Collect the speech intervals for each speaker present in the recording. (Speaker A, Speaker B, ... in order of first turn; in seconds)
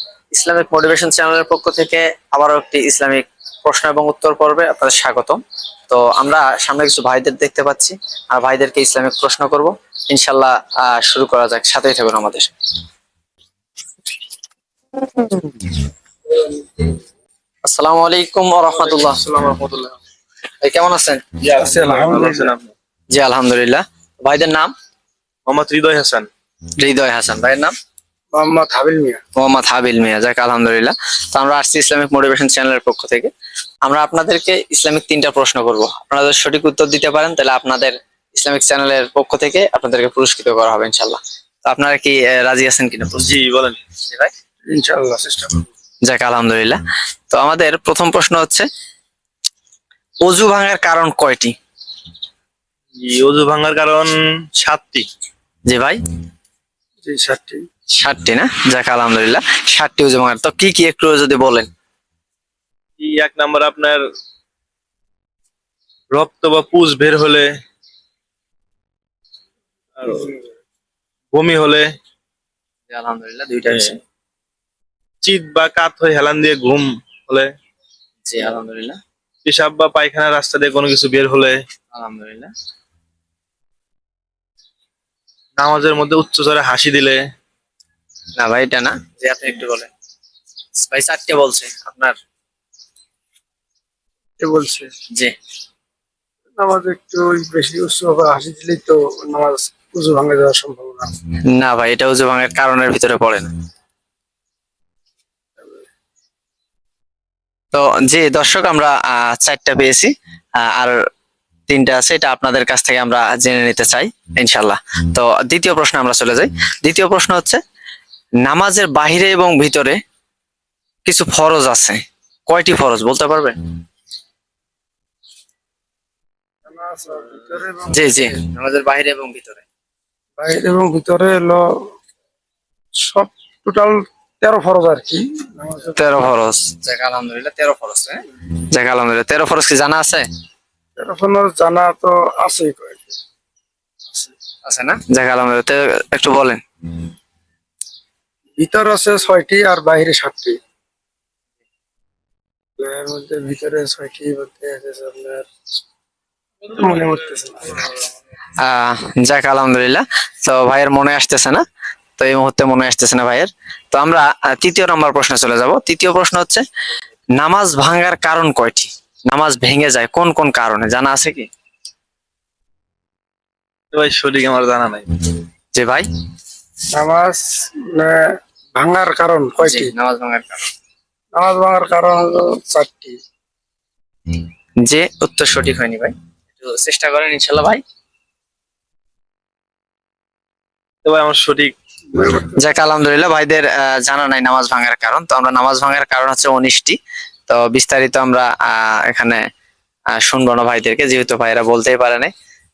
Speaker A: 0.3-12.5, 15.1-15.8, 17.6-19.2, 20.6-21.2, 23.1-24.7, 26.8-27.7, 29.4-33.3, 33.8-43.3, 44.0-44.3, 46.1-48.7, 50.2-51.5, 55.7-56.0, 57.9-61.7, 72.9-74.0, 78.2-79.0, 81.9-82.5, 88.4-89.9, 90.8-92.2, 101.5-103.5, 107.7-111.0, 111.7-117.6, 118.4-120.0, 121.0-123.5, 127.9-129.6, 136.0-140.2, 144.7-146.6, 158.6-161.6, 162.2-166.6, 167.4-171.5, 175.8-176.1, 179.6-180.7, 184.8-187.8, 192.4-197.0, 197.5-199.4, 200.1-202.3
Speaker B: 18.7-20.0, 21.4-22.7, 25.5-26.3, 43.1-43.8, 53.0-55.1, 63.0-64.0, 66.1-67.5, 70.0-70.4, 71.3-71.9, 73.7-74.0, 75.2-77.5, 79.4-81.6, 85.6-87.2, 173.9-175.1, 191.0-191.7
Speaker C: 21.5-22.5, 28.3-29.2, 44.7-45.6, 57.0-57.6, 94.4-94.9, 96.6-101.1, 126.7-128.3, 130.4-131.6, 133.0-136.0, 141.0-143.1, 148.6-150.6, 152.8-155.5, 156.7-157.8, 176.9-178.2, 178.8-179.9, 181.3-183.2, 192.2-192.5